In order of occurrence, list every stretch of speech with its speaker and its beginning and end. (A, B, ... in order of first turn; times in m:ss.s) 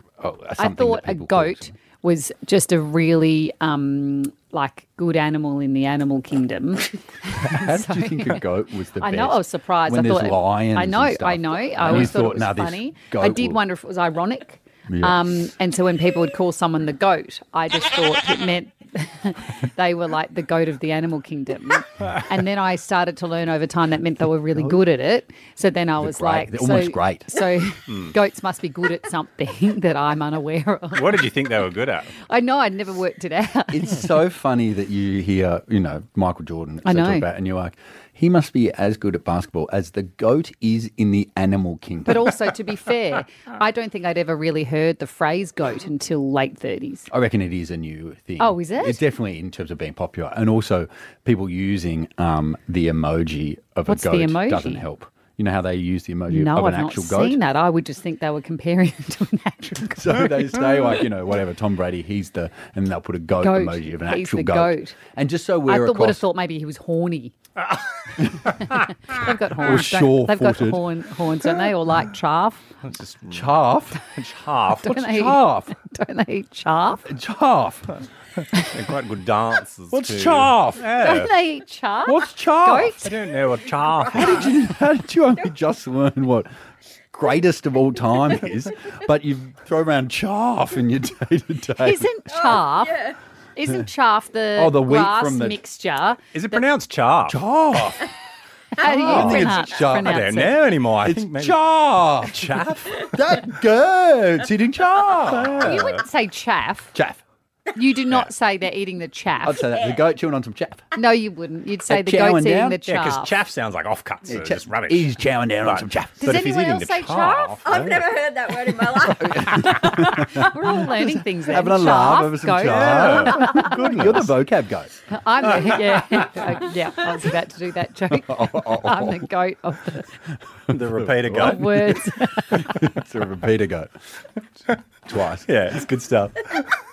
0:00.2-0:01.8 A
0:00.6-0:08.4 B
0:07.4-0:13.6 A
0:09.0-0:31.3 B
0:14.9-0:15.3 A
0:26.0-0:27.3 A
0:27.9-0:28.1 C
0:30.9-0:32.1 C
0:32.3-0:34.0 B
0:33.7-0:42.3 A
0:36.8-0:37.3 B
0:42.1-0:47.1 B
0:47.1-0:57.4 A
0:48.4-0:49.0 B
0:53.9-0:54.8 B
0:56.3-1:00.7 B
0:59.9-1:06.3 A
1:03.4-1:05.0 B
1:05.7-1:07.3 B
1:08.7-1:12.7 B
1:09.6-1:10.8 A
1:12.8-1:13.5 C
1:13.3-1:14.0 A
1:14.2-1:14.9 C
1:14.8-1:17.1 B
1:14.9-1:15.7 A
1:17.1-1:17.9 A
1:18.5-1:21.3 C
1:19.9-1:20.9 A
1:21.0-1:23.1 B
1:22.1-1:23.1 A
1:23.0-1:24.5 C
1:24.1-1:26.5 A
1:27.1-1:32.1 A
1:31.8-1:36.6 B
1:32.3-1:33.2 D
1:34.6-1:35.6 A
1:36.3-1:37.4 C
1:37.3-1:38.1 A
1:38.8-1:40.6 B
1:38.8-1:40.3 A
1:39.1-1:41.6 C
1:41.0-1:46.0 A
1:42.2-1:43.1 C
1:45.2-1:46.0 C
1:45.6-1:46.9 B
1:46.9-1:47.2 A
1:47.8-1:49.7 B
1:49.4-1:50.9 A
1:49.8-1:50.0 D
1:51.0-1:53.3 B
1:51.9-1:52.8 A
1:52.9-1:55.1 C
1:54.3-1:56.4 A
1:55.6-1:57.9 C
1:56.2-1:57.7 B
1:57.6-1:59.8 D
1:59.0-2:04.9 A
1:59.8-2:04.1 B
2:02.6-2:04.3 C
2:05.1-2:10.1 B
2:08.1-2:09.3 A
2:10.7-2:11.6 C
2:10.7-2:12.0 A
2:11.4-2:12.8 B
2:12.5-2:13.9 A
2:15.1-2:15.5 A
2:15.5-2:16.7 C